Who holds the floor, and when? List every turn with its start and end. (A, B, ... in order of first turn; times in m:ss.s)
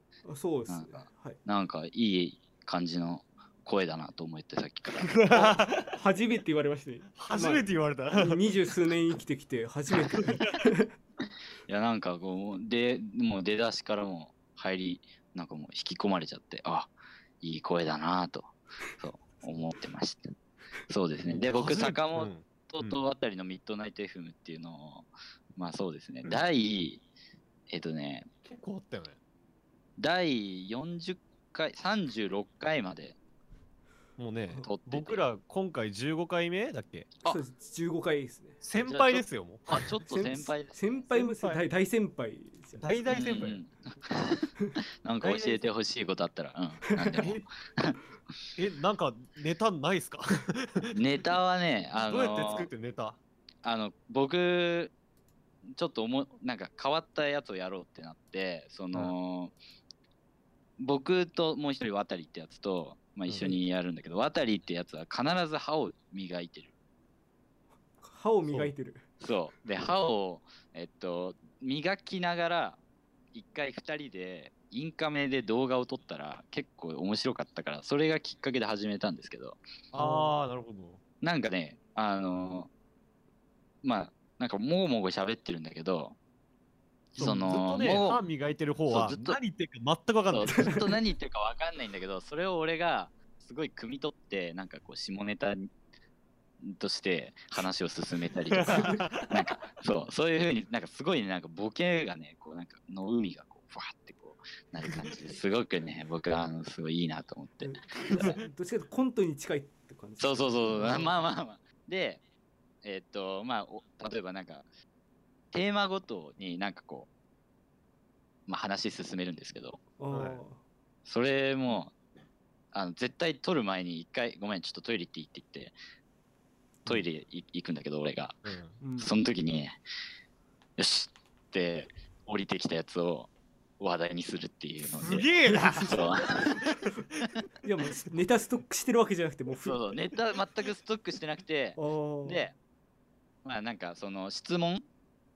0:00.2-0:01.4 A
0:00.7-0:05.5 B
0:05.1-0:06.0 C
0:05.9-0:10.9 A
0:07.2-0:08.5 C
0:10.1-0:10.4 C
0:11.7-0:20.3 B
0:20.9-0:27.0 B
0:21.2-0:23.0 C
0:27.7-0:28.3 B
0:28.4-0:29.2 C
0:30.0-0:33.2 B
0:34.2-0:37.1 C
0:34.6-0:35.3 B
0:37.2-0:38.6 A
0:38.6-0:39.8 C
0:38.8-0:41.0 B
0:40.1-0:42.8 A
0:41.1-0:41.6 C
0:42.8-0:43.6 C
0:43.1-0:44.5 B
0:45.0-0:48.0 B
0:45.2-0:45.7 C
0:47.2-0:47.4 C
0:48.6-0:50.9 C
0:50.9-0:52.7 B
0:52.0-0:53.2 C
0:53.6-0:54.9 B
0:55.7-0:59.5 B
1:00.8-1:06.7 B
1:03.3-1:03.6 C
1:08.0-1:09.0 A
1:08.4-1:08.7 C
1:09.2-1:12.8 B
1:13.3-1:19.6 B
1:19.9-1:21.0 C
1:20.0-1:20.3 A
1:21.2-1:22.7 B
1:23.8-1:26.2 B
1:27.1-1:28.2 B
1:27.2-1:30.9 C
1:28.9-1:29.4 B
1:30.3-1:35.7 B
1:30.6-1:30.8 A
1:36.6-1:48.4 B
1:38.5-1:39.4 C
1:38.7-1:39.0 A
1:44.8-1:45.2 C
1:47.6-1:51.1 A
1:50.2-1:52.2 B
1:52.8-1:54.7 B
1:55.5-1:57.1 B
1:58.5-1:59.8 B
2:00.0-2:00.6 A
2:00.1-2:00.4 C
2:01.0-2:01.9 B
2:02.7-2:05.8 B
2:06.8-2:08.4 B
2:08.4-2:08.8 C
2:08.8-2:09.1 A
2:09.0-2:09.8 B
2:10.8-2:16.6 B
2:14.8-2:16.9 C
2:15.4-2:16.0 A
2:17.6-2:20.0 A
2:19.6-2:22.5 B
2:21.8-2:22.5 A
2:23.4-2:24.8 B